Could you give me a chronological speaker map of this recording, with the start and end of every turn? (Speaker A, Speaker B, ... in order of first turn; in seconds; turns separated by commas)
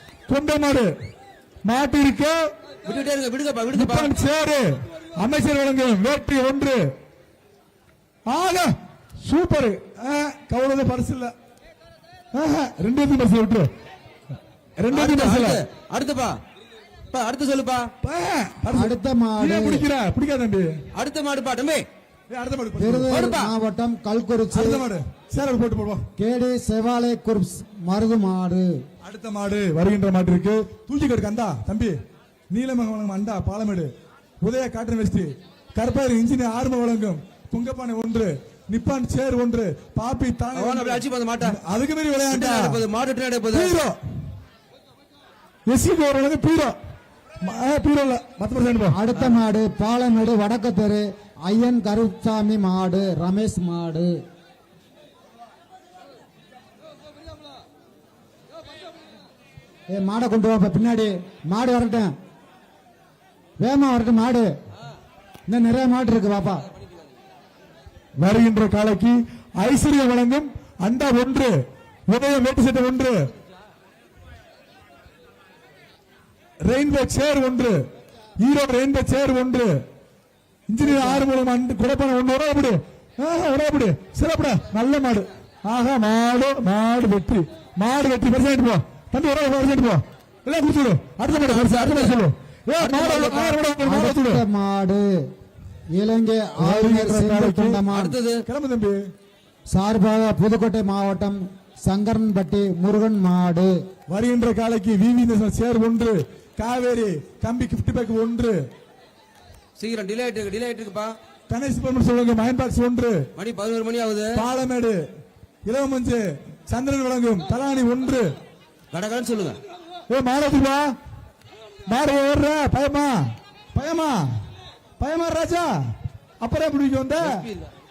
Speaker A: 0.3-0.9, Speaker A: 1.6-2.5, Speaker B: 2.9-4.1, Speaker A: 3.7-6.9, Speaker A: 8.3-8.7, Speaker A: 9.2-11.3, Speaker A: 12.3-13.7, Speaker A: 14.8-15.6, Speaker B: 14.9-16.4, Speaker B: 17.1-17.9, Speaker A: 18.0-20.8, Speaker C: 18.7-19.9, Speaker B: 20.9-21.8, Speaker A: 22.3-23.2, Speaker C: 22.8-24.8, Speaker B: 23.1-23.5, Speaker A: 24.5-26.1, Speaker C: 26.2-28.7, Speaker A: 29.0-32.0, Speaker A: 32.5-33.9, Speaker A: 34.4-42.8, Speaker B: 40.5-41.6, Speaker B: 42.3-43.8, Speaker A: 43.5-44.0, Speaker A: 45.7-46.8, Speaker A: 47.4-49.0, Speaker C: 48.9-54.2, Speaker C: 59.9-62.1, Speaker C: 63.6-64.5, Speaker C: 65.5-66.7, Speaker A: 68.2-71.6, Speaker A: 72.1-73.3, Speaker A: 76.7-77.8, Speaker A: 78.4-79.7, Speaker A: 80.7-94.4, Speaker C: 80.8-81.3, Speaker B: 91.4-92.2, Speaker B: 92.8-93.6, Speaker C: 93.8-95.1, Speaker C: 96.0-98.1, Speaker A: 96.6-97.8, Speaker B: 97.9-98.5, Speaker A: 98.5-99.0, Speaker C: 99.7-103.7, Speaker A: 104.1-108.6, Speaker B: 109.8-111.2, Speaker A: 111.5-113.2, Speaker B: 113.4-114.4, Speaker A: 114.4-115.0, Speaker A: 115.7-118.3, Speaker B: 118.9-119.6, Speaker A: 120.1-120.9, Speaker A: 121.9-123.2, Speaker A: 123.7-124.3, Speaker A: 125.0-125.7, Speaker A: 126.4-127.4, Speaker B: 127.2-127.7